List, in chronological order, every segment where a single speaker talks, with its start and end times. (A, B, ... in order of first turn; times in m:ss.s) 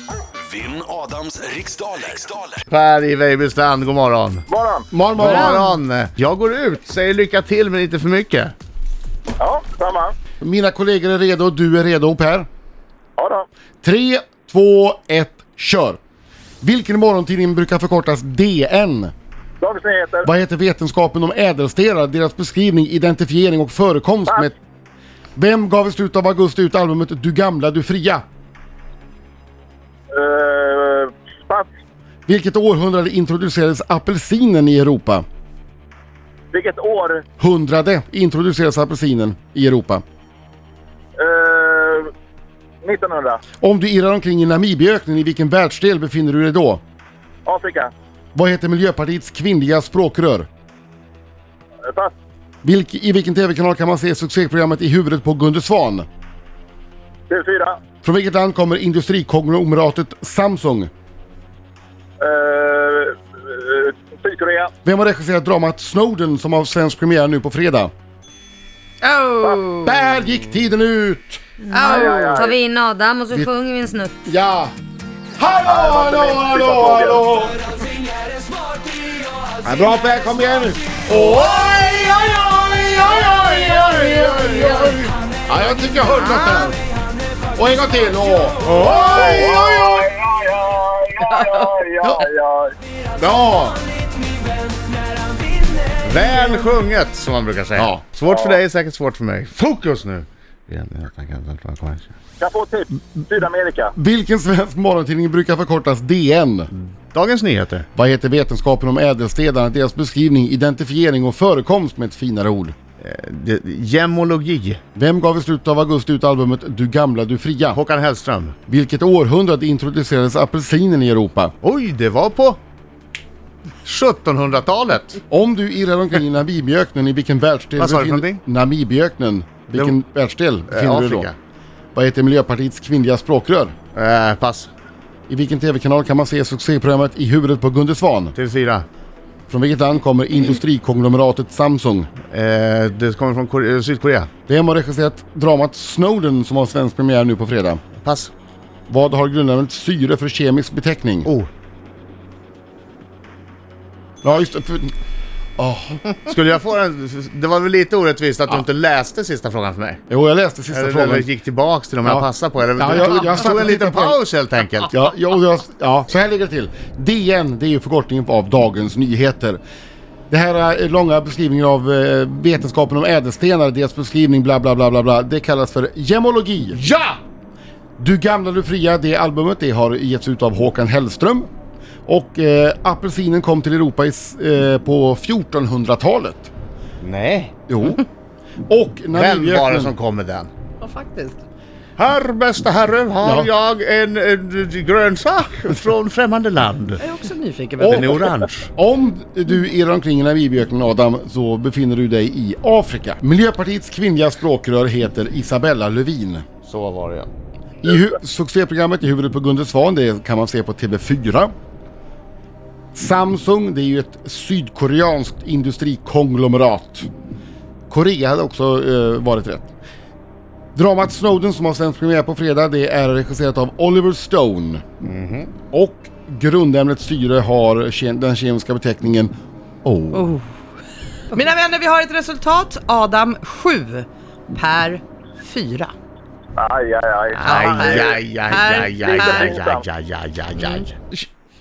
0:00.5-0:02.5 A
0:02.6-0:04.5 B
0:04.5-0:04.9 C
0:04.9-0:05.6 D
0:05.2-0:08.5 B
0:05.3-0:05.6 E
0:09.4-0:10.1 C
0:10.4-0:12.5 D
0:13.2-0:13.5 C
0:13.8-0:16.0 D
0:16.6-0:19.1 D
0:19.6-0:20.3 C
0:20.2-0:24.5 D
0:25.4-0:28.2 D
0:30.1-0:31.7 C
0:32.3-0:35.2 D
0:36.5-0:37.2 C
0:37.4-0:40.0 D
0:41.2-0:42.1 C
0:42.8-0:43.4 C
0:43.6-0:46.8 D
0:47.4-0:47.9 C
0:48.3-0:50.5 D
0:52.6-0:56.0 D
0:57.3-0:57.8 C
0:58.0-1:00.9 D
1:02.2-1:04.7 C
1:04.8-1:07.9 D
1:09.0-1:10.0 F
1:09.7-1:11.4 D
1:11.6-1:14.3 E
1:11.7-1:12.4 F
1:11.9-1:12.5 C
1:14.2-1:14.7 D
1:15.4-1:17.7 D
1:15.6-1:17.2 C
1:19.6-1:26.8 D
1:21.2-1:21.7 B
1:23.1-1:25.1 B
1:27.6-1:30.0 D
1:28.6-1:29.6 B
1:29.1-1:32.7 C
1:33.2-1:33.8 D
1:36.0-1:42.1 B
1:37.8-1:38.0 D
1:38.3-1:38.6 C
1:42.4-1:43.9 C
1:44.0-1:46.7 D
1:46.7-1:47.9 B
1:48.0-1:52.8 D
1:53.0-1:54.8 B
1:55.0-1:57.8 D
1:57.7-1:58.6 B
1:58.7-2:01.5 D
2:01.6-2:02.6 B
2:03.8-2:05.2 B
2:05.3-2:11.3 D
2:07.8-2:08.4 B
2:10.7-2:11.3 B
2:11.9-2:13.8 D
2:13.9-2:14.7 B
2:15.3-2:18.3 D
2:18.3-2:18.9 B
2:19.5-2:22.1 D
2:22.3-2:24.3 B
2:24.5-2:27.8 D
2:28.0-2:28.3 B
2:28.9-2:31.3 D
2:34.2-2:34.9 D
2:35.6-2:36.1 D
2:36.2-2:40.0 B
2:40.1-2:41.3 D
2:40.7-2:45.0 B
2:42.0-2:44.2 D
2:44.9-2:49.6 D
2:50.3-2:57.0 D
2:56.8-2:57.2 B
2:58.0-3:01.5 D
3:02.1-3:06.5 D
3:07.0-3:07.5 B
3:07.7-3:08.0 D
3:08.7-3:09.9 D
3:09.1-3:10.5 B
3:10.8-3:11.4 F
3:12.0-3:17.1 B
3:13.2-3:13.5 D
3:17.0-3:18.2 F
3:17.8-3:18.7 B
3:17.8-3:26.4 D
3:26.6-3:27.3 B
3:27.8-3:31.5 D
3:32.9-3:37.1 D
3:37.9-3:39.7 D
3:40.8-3:44.8 D
3:45.0-3:45.5 B
3:45.7-3:49.3 D
3:49.8-3:50.3 D
3:50.1-3:50.5 F
3:51.3-3:55.9 F
3:56.6-3:58.2 C
3:57.3-3:59.5 F
3:57.5-4:01.3 B
3:59.0-3:59.8 C